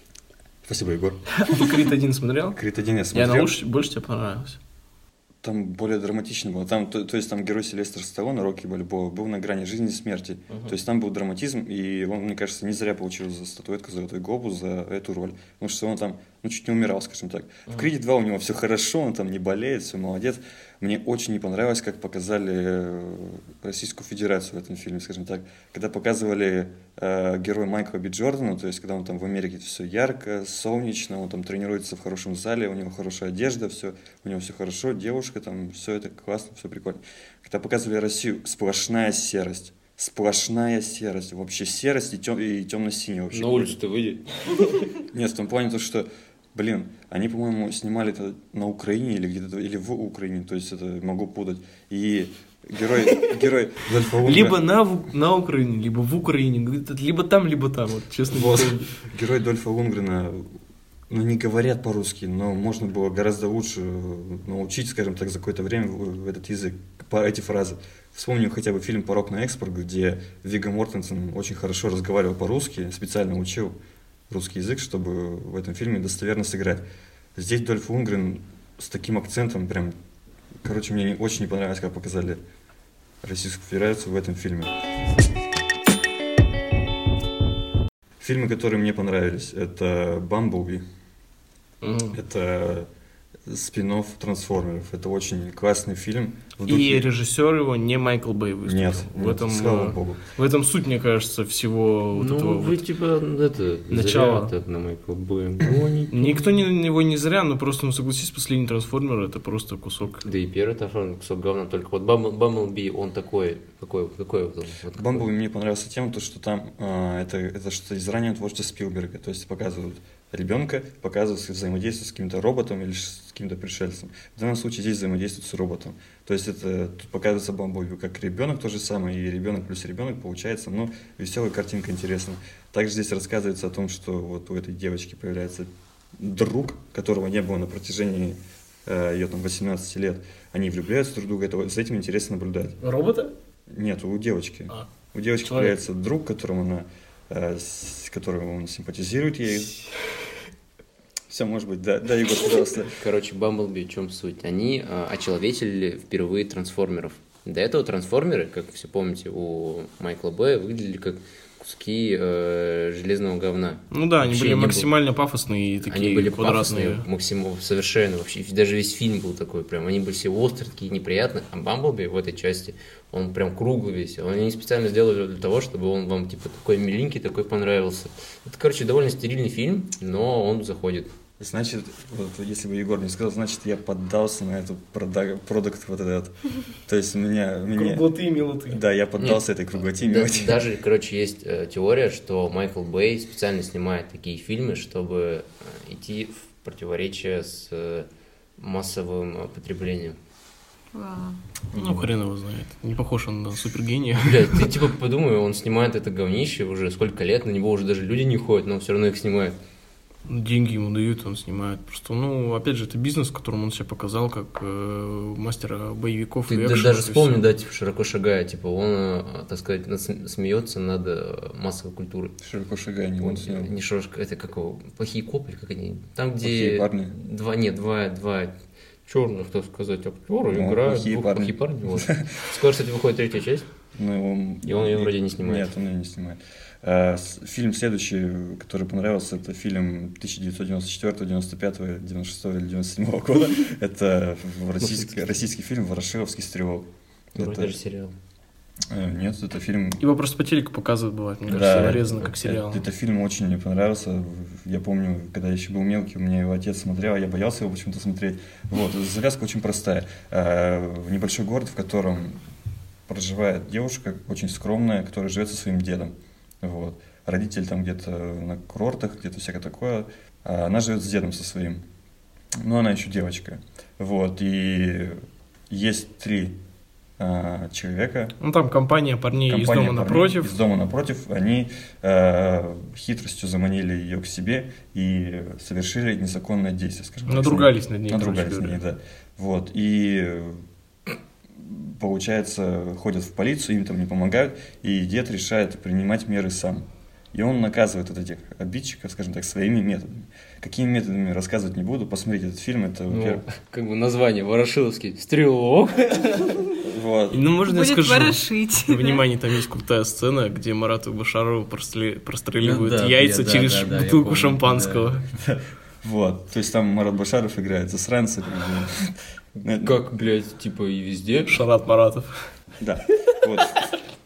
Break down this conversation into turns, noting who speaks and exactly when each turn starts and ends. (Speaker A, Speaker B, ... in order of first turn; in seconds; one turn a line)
Speaker A: 0.6-1.6
Speaker B: 1.4-2.6
Speaker A: 2.5-3.5
Speaker B: 3.1-4.6
Speaker A: 5.4-43.8
Speaker C: 10.5-10.7
Speaker C: 43.3-44.9
Speaker A: 45.1-54.6
Speaker B: 54.2-58.9
Speaker A: 58.3-60.5
Speaker A: 61.1-73.7
Speaker A: 74.3-79.9
Speaker A: 80.6-82.4
Speaker A: 83.2-84.7
Speaker A: 88.2-90.8
Speaker B: 91.8-92.2
Speaker A: 92.1-92.9
Speaker A: 93.5-97.1
Speaker B: 96.7-102.8
Speaker A: 98.6-100.2
Speaker C: 102.1-106.4
Speaker B: 103.9-104.5
Speaker B: 106.1-110.2
Speaker C: 110.2-115.2
Speaker A: 114.9-142.8
Speaker B: 142.8-143.3
Speaker A: 143.7-149.7
Speaker B: 145.4-145.8
Speaker A: 151.3-153.0
Speaker C: 153.0-164.9
Speaker B: 163.9-167.1
Speaker C: 165.8-181.1
Speaker A: 181.4-188.1
Speaker B: 187.7-188.8
Speaker A: 188.7-190.7
Speaker C: 189.9-200.2
Speaker D: 200.9-201.4
Speaker B: 201.7-204.7
Speaker C: 204.2-209.6
Speaker B: 210.3-217.4
Speaker C: 216.5-222.3
Speaker A: 222.4-223.7
Speaker C: 223.2-233.7
Speaker A: 226.4-227.1
Speaker A: 230.5-232.4
Speaker A: 233.9-247.8
Speaker C: 234.6-235.7
Speaker C: 244.8-245.3
Speaker C: 247.3-248.1
Speaker A: 248.9-250.0
Speaker B: 250.0-252.8
Speaker C: 251.5-252.3
Speaker A: 251.5-262.4
Speaker A: 263.1-271.8
Speaker A: 272.6-276.6
Speaker A: 277.2-278.4
Speaker B: 278.4-280.5
Speaker A: 279.5-290.6
Speaker B: 287.3-288.8
Speaker A: 291.5-303.4
Speaker C: 303.1-306.7
Speaker A: 306.8-307.4
Speaker B: 307.3-315.2
Speaker D: 307.6-309.2
Speaker C: 312.6-315.1
Speaker A: 315.4-320.0
Speaker C: 319.7-321.6
Speaker B: 321.5-322.3
Speaker A: 322.8-323.9